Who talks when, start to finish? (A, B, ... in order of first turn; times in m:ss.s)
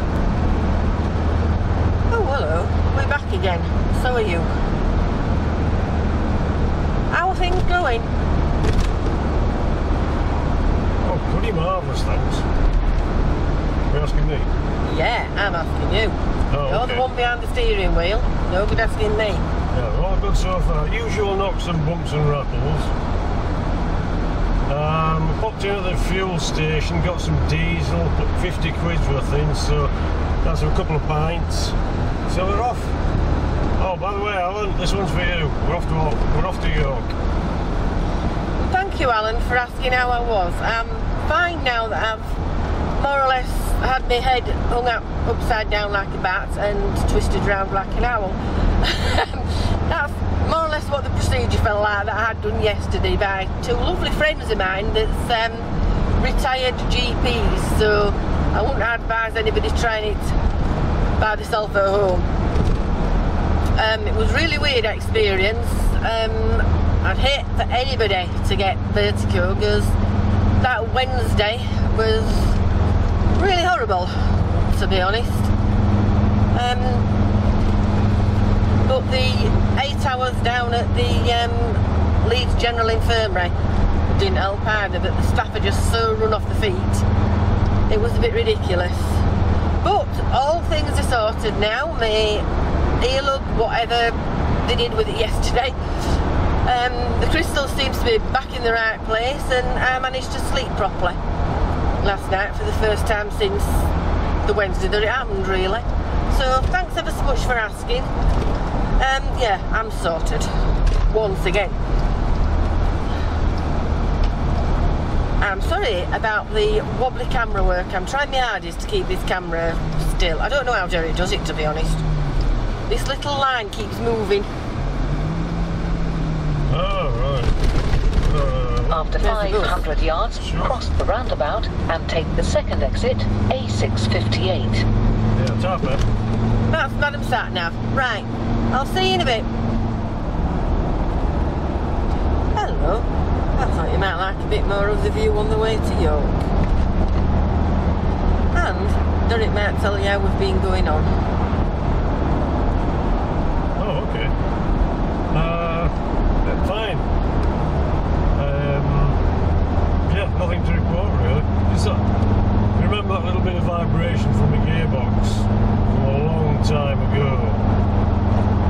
0:02.1-0:04.5 A
0:07.1-0:08.1 A
0:11.0-0:12.5 B
0:13.9-0:14.5 B
0:14.8-0:19.5 A
0:16.5-0:17.1 B
0:19.7-0:22.9 B
0:24.7-0:33.0 B
0:33.8-0:37.2 B
0:38.6-0:42.4 A
0:43.0-1:00.4 A
1:01.2-1:02.3 A
1:03.8-1:10.0 A
1:10.6-1:12.6 A
1:13.3-1:15.5 A
1:16.5-1:17.1 A
1:18.8-1:23.5 A
1:24.1-1:27.0 A
1:27.9-1:29.3 A
1:29.8-1:32.5 A
1:33.0-1:35.8 A
1:36.6-1:41.2 A
1:42.0-1:43.9 A
1:44.4-1:48.1 A
1:49.0-1:51.8 A
1:55.4-2:02.0 A
2:02.9-2:04.5 A
2:06.7-2:07.6 B
2:08.1-2:09.3 B
2:08.9-2:14.9 C
2:09.2-2:09.9 A
2:10.4-2:10.8 B
2:15.4-2:16.1 B
2:16.7-2:19.5 A
2:22.6-2:26.4 A
2:28.5-2:31.2 A
2:33.8-2:34.4 B
2:35.3-2:37.1 B
2:38.4-2:39.3 B
2:40.1-2:42.1 B
2:42.7-2:47.7 B